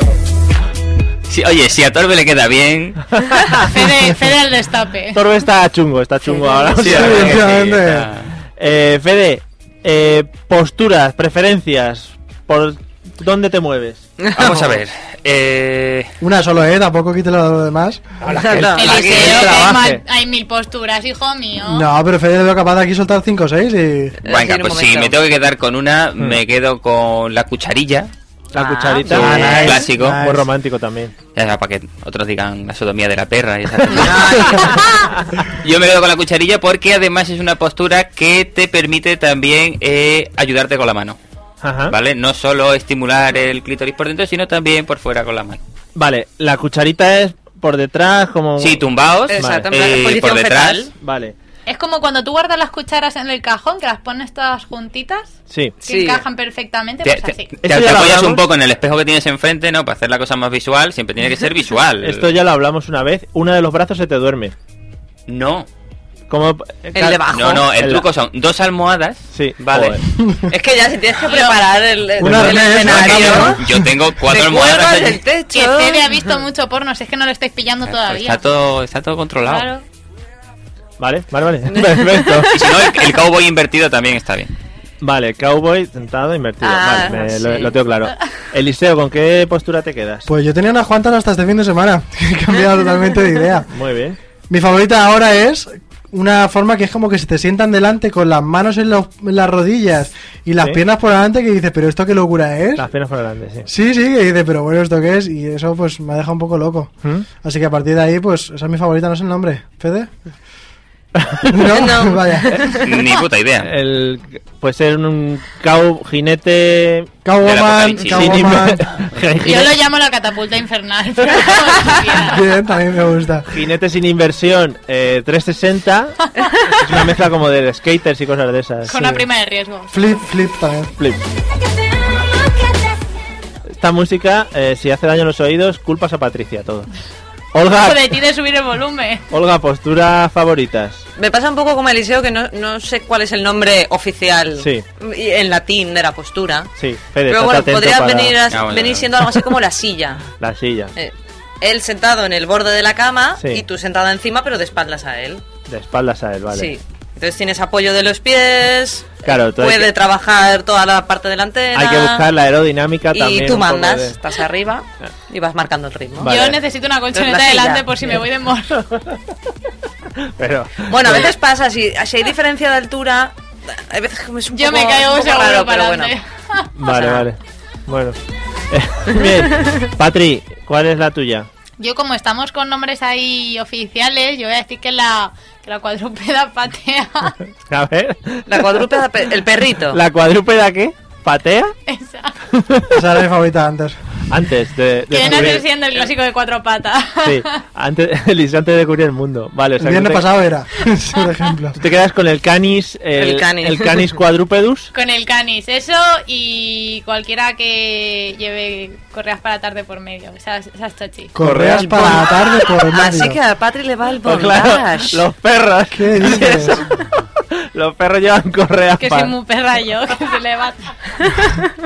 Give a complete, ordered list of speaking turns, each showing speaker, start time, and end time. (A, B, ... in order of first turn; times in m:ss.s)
0:01.3-0:03.1 A
0:03.6-0:05.2 B
0:05.1-0:07.4 C
0:06.7-0:08.3 A
0:06.8-0:08.1 D
0:08.6-0:14.0 C
0:14.2-0:14.6 E
0:14.3-0:16.1 A
0:16.2-0:18.1 D
0:18.2-0:20.0 C
0:18.3-0:19.7 E
0:18.7-0:21.9 B
0:21.6-0:24.2 D
0:24.2-0:25.2 E
0:24.2-0:28.1 A
0:28.5-0:29.8 E
0:28.5-0:31.1 C
0:29.1-0:30.5 D
0:29.1-0:30.2 A
0:31.3-0:34.8 A
0:33.9-0:35.0 E
0:35.5-0:41.2 A
0:41.6-0:41.9 C
0:41.9-0:45.6 A
0:46.0-0:49.7 C
0:48.6-0:50.9 A
0:49.3-0:50.9 E
0:51.0-0:51.3 C
0:51.7-0:57.6 B
0:55.5-0:55.8 C
0:55.8-0:56.2 E
0:57.0-1:02.3 A
0:57.6-0:58.4 C
1:02.0-1:04.5 C
1:05.3-1:05.7 A
1:06.3-1:08.0 C
1:06.9-1:07.7 E
1:07.3-1:10.0 A
1:09.3-1:10.0 C
1:10.2-1:10.4 D
1:10.5-1:13.6 E
1:11.2-1:11.6 B
1:12.2-1:13.8 D
1:12.2-1:12.6 C
1:12.5-1:15.2 A
1:14.2-1:16.4 E
1:15.5-1:18.4 B
1:17.8-1:19.7 A
1:19.5-1:19.8 E
1:21.0-1:22.5 C
1:21.7-1:23.2 E
1:22.5-1:24.5 A
1:25.0-1:30.2 C
1:26.6-1:27.8 E
1:30.3-1:33.7 D
1:33.7-1:34.2 C
1:34.5-1:42.9 D
1:42.8-1:43.7 C
1:43.7-1:50.1 D
1:51.2-1:51.7 C
1:51.5-1:52.6 D
1:51.7-1:52.9 E
1:52.8-1:53.7 A
1:53.6-1:57.1 C
1:57.2-1:58.8 D
1:57.4-1:58.5 A
1:58.1-1:59.7 C
1:59.4-2:02.4 B
2:02.3-2:03.5 D
2:03.5-2:06.2 C
2:06.8-2:09.1 C
2:08.8-2:09.9 B
2:09.9-2:10.9 D
2:13.8-2:16.9 C
2:17.5-2:18.1 C
2:17.7-2:19.2 B
2:19.3-2:21.0 C
2:21.2-2:26.7 E
2:24.6-2:24.8 C
2:26.8-2:28.4 C
2:27.3-2:30.2 E
2:28.5-2:29.1 A
2:30.4-2:30.9 C
2:31.0-2:35.4 E
2:35.7-2:36.7 C
2:36.5-2:42.3 E
2:39.2-2:39.9 C
2:41.7-2:44.2 C
2:43.1-2:46.3 E
2:46.2-2:46.6 C
2:46.2-2:48.9 B
2:47.1-2:48.0 E
2:50.2-2:51.3 C
2:50.9-2:56.1 E
2:54.5-2:56.7 B
2:56.8-2:58.2 C
2:56.9-2:57.2 E
2:58.7-3:01.5 C
3:01.8-3:07.4 B
3:07.7-3:08.9 C
3:08.5-3:10.0 E
3:09.9-3:11.7 C
3:11.9-3:12.3 B
3:12.5-3:13.0 C
3:12.9-3:14.0 D
3:14.3-3:15.6 C
3:15.1-3:17.6 B
3:17.2-3:20.2 C
3:19.8-3:21.8 D
3:21.1-3:21.5 B
3:21.8-3:24.9 C
3:23.2-3:24.1 E
3:24.9-3:31.4 B
3:31.3-3:33.4 D
3:31.4-3:32.2 C
3:31.6-3:35.2 E
3:34.2-3:37.2 C
3:35.9-3:36.8 D
3:37.7-3:39.3 C
3:39.0-3:41.3 B